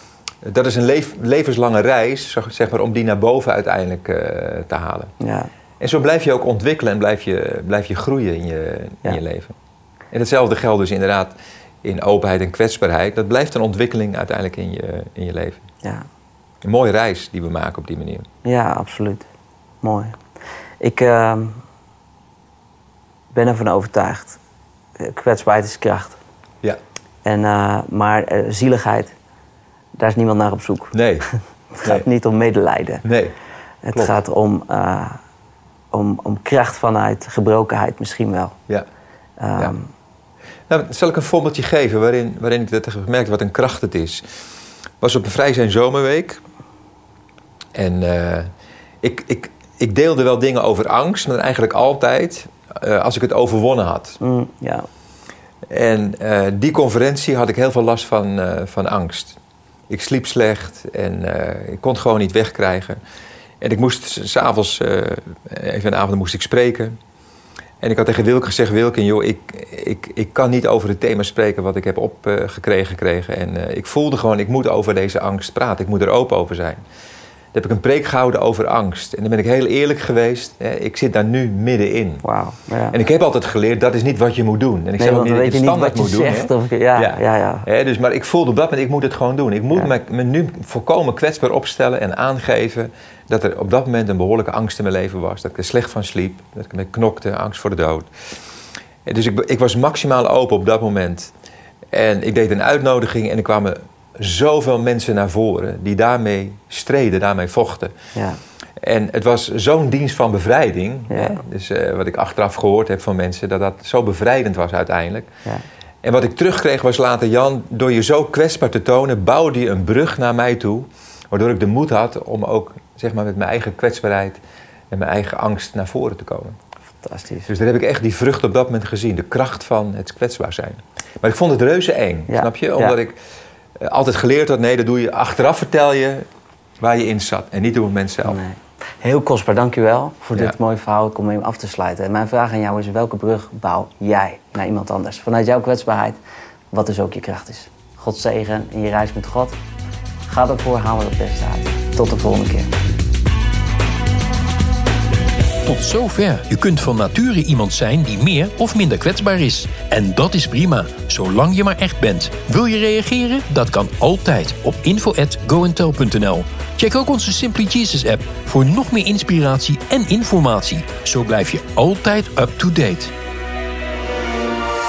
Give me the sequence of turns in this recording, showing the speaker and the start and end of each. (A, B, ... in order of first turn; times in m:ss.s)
0:00.4-0:05.1 A
0:05.2-0:05.5 B
0:05.8-0:09.6 A
0:10.1-0:15.6 A
0:16.6-0:18.3 A
0:18.4-0:19.2 B
0:19.8-0:20.2 B
0:20.8-0:21.6 B
0:23.3-0:24.4 B
0:25.0-0:26.2 B
0:27.2-0:29.1 B
0:30.0-0:31.0 B
0:30.9-0:31.3 A
0:31.8-0:33.0 B
0:33.0-0:33.3 A
0:33.8-0:35.2 B
0:35.9-0:38.6 B
0:39.4-0:39.9 B
0:40.7-0:44.2 A
0:45.0-0:46.4 A
0:47.7-0:48.5 A
0:49.0-0:54.2 A
0:54.2-0:54.9 B
0:55.7-0:59.4 A
0:59.9-1:03.0 A
1:03.6-1:07.0 A
1:07.8-1:16.8 A
1:17.5-1:22.2 A
1:22.2-1:23.0 B
1:22.9-1:38.1 A
1:25.0-1:27.7 B
1:39.0-1:41.3 A
1:41.9-1:47.9 A
1:48.8-1:55.3 A
1:51.1-1:51.4 B
1:56.0-2:04.4 A
2:04.9-2:06.6 A
2:07.0-2:07.5 B
2:07.5-2:13.2 A
2:12.3-2:13.0 B
2:13.8-2:16.2 A
2:16.8-2:18.4 A
2:18.2-2:26.2 B
2:26.7-2:29.6 B
2:30.3-2:32.7 B
2:35.6-2:53.1 C